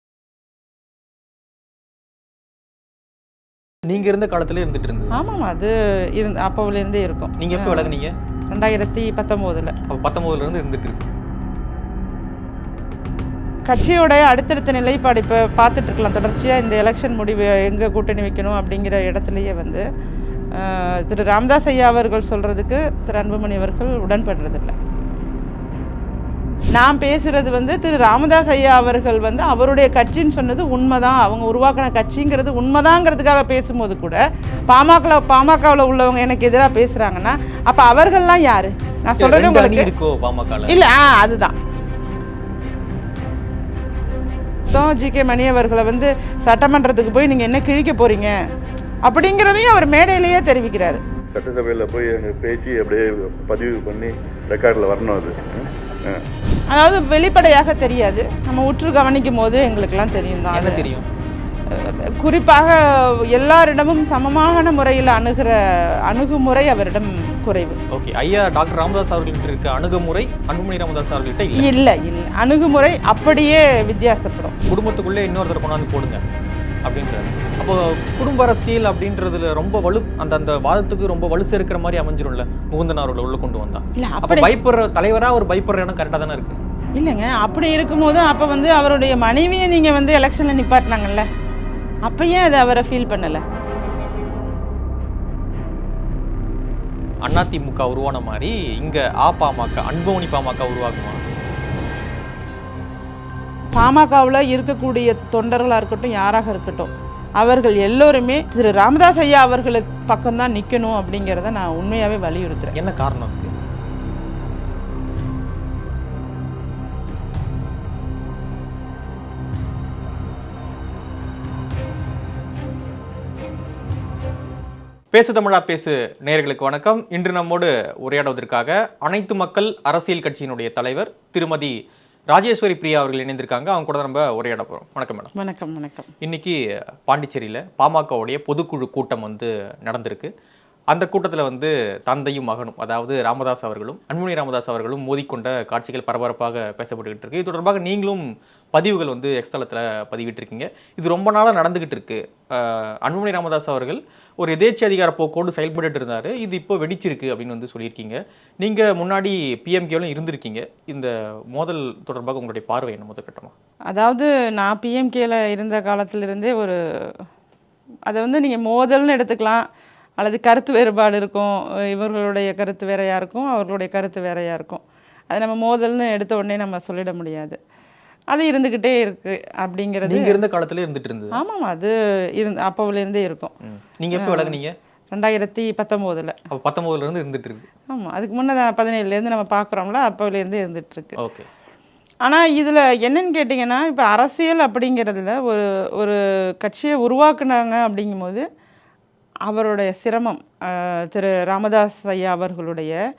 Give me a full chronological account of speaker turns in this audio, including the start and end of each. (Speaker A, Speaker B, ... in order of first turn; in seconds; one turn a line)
Speaker A: 3.9-5.2
Speaker B: 5.1-8.0
Speaker A: 7.4-8.1
Speaker B: 8.5-9.8
Speaker A: 9.9-11.1
Speaker B: 13.7-19.8
Speaker B: 20.5-24.8
Speaker B: 26.8-39.9
Speaker A: 39.2-40.8
Speaker B: 40.7-41.6
Speaker B: 44.7-48.4
Speaker B: 49.1-51.0
Speaker C: 51.3-56.2
Speaker B: 56.7-60.9
Speaker A: 60.5-61.0
Speaker B: 61.7-62.8
Speaker B: 63.3-65.6
Speaker B: 66.1-67.8
Speaker A: 67.9-71.7
Speaker B: 71.6-74.6
Speaker A: 74.7-76.2
Speaker A: 76.8-86.6
Speaker B: 84.0-84.5
Speaker B: 87.0-91.3
Speaker B: 92.1-93.4
Speaker A: 97.2-101.2
Speaker B: 103.7-112.7
Speaker A: 112.8-113.5
Speaker A: 125.1-131.7
Speaker A: 132.3-135.3
Speaker B: 135.3-136.1
Speaker A: 136.2-140.3
Speaker A: 140.9-163.5
Speaker B: 163.9-167.2
Speaker B: 168.1-169.6
Speaker B: 170.2-177.6
Speaker B: 178.3-180.4
Speaker A: 180.1-181.4
Speaker B: 181.3-183.5
Speaker A: 183.6-184.7
Speaker B: 184.1-184.6
Speaker B: 185.1-186.4
Speaker A: 186.5-187.7
Speaker B: 187.9-191.2
Speaker A: 191.2-191.5
Speaker B: 192.2-198.4
Speaker B: 199.5-203.0